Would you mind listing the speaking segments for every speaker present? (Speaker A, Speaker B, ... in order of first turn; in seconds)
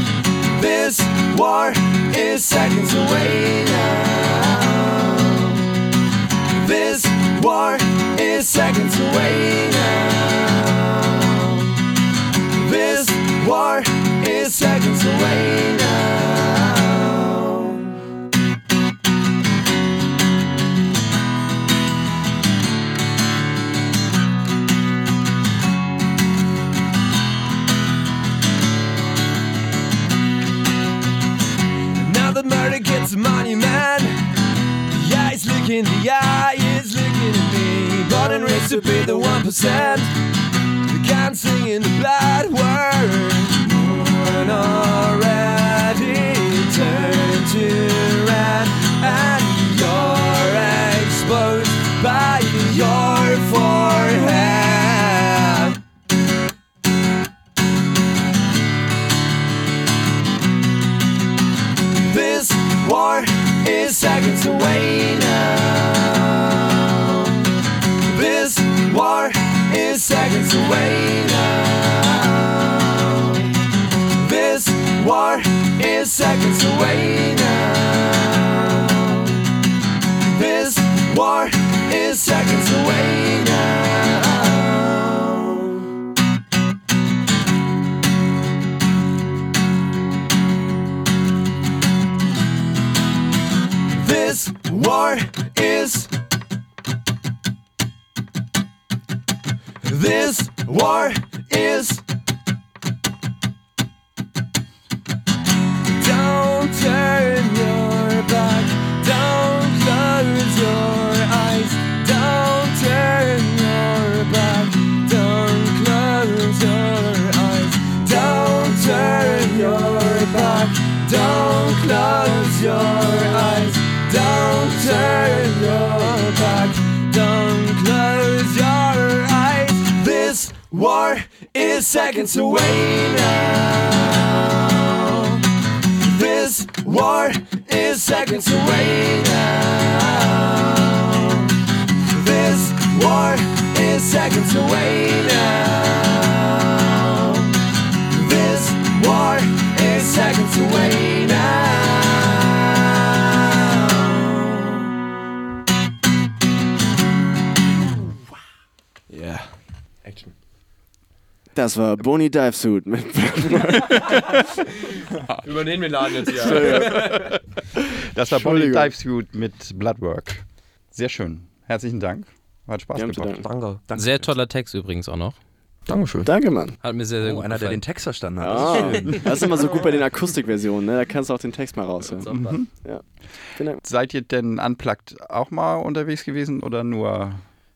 Speaker A: 0.5-5.6, 6.5-11.6, 12.5-17.9, 31.9-34.3, 34.9-40.1, 40.9-55.8, 62.0-67.2, 68.0-73.5, 74.1-79.4, 80.2-85.8, 93.9-96.1, 99.8-102.0, 105.9-135.4, 136.0-141.5, 142.1-147.5, 148.1-154.1
Speaker B: 159.1-159.5, 160.0-160.3, 164.8-167.4, 173.4-173.8, 175.9-176.3, 179.5-180.0, 182.1-182.6
Speaker C: 161.5-164.6, 166.2-168.9, 172.9-173.4, 176.2-176.8, 178.4-183.0, 183.6-183.8
Speaker D: 168.1-173.4, 178.9-179.2, 182.3-182.7, 183.8-187.4
Speaker E: 173.9-174.3, 177.2-179.5
Speaker F: 173.9-175.4, 176.8-177.8